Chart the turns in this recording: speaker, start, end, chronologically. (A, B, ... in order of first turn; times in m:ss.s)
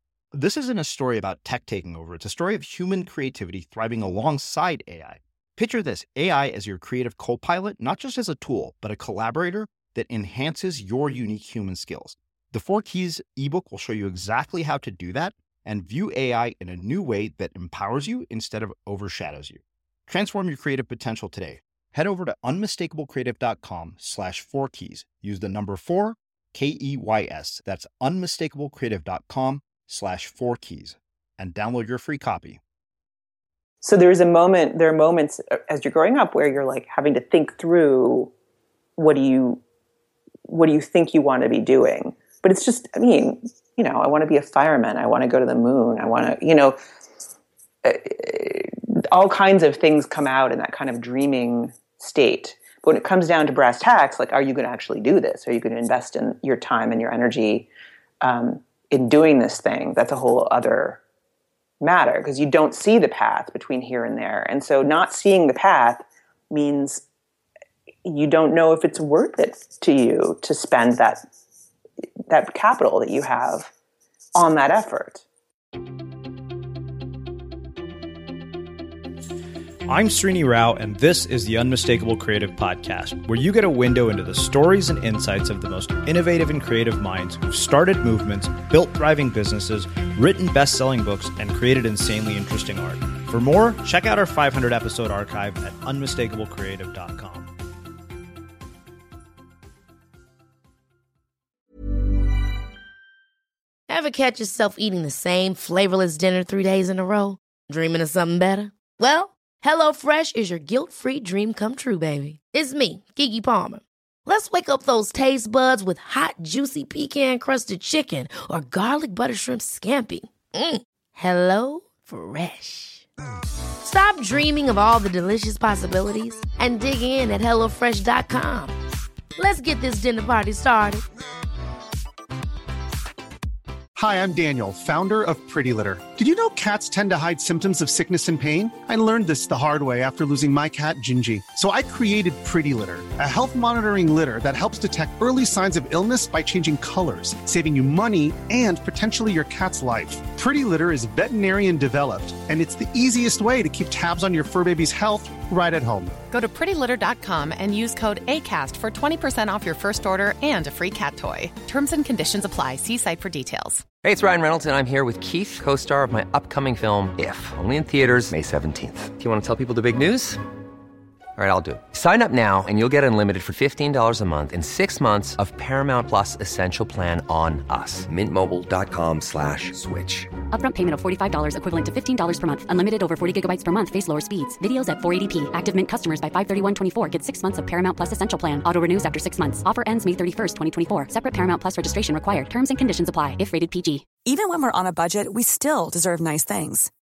0:00.3-0:32.6 A
0:33.8-0:38.3 B
0:39.0-0:39.6 B
0:40.5-0:46.8 B
0:47.8-0:57.7 B
0:58.2-1:01.0 B
1:01.8-1:07.0 B
1:08.0-1:11.2 B
1:12.3-1:13.7 B
1:14.3-1:15.2 B
1:19.9-1:37.5 A
1:43.9-2:03.0 C
2:03.8-2:08.7 C
2:09.4-2:11.0 C
2:13.9-2:36.1 D
2:36.3-2:43.8 E
2:44.0-2:50.4 F
2:51.4-3:00.3 F
3:00.5-3:14.0 G
3:14.2-3:16.9 H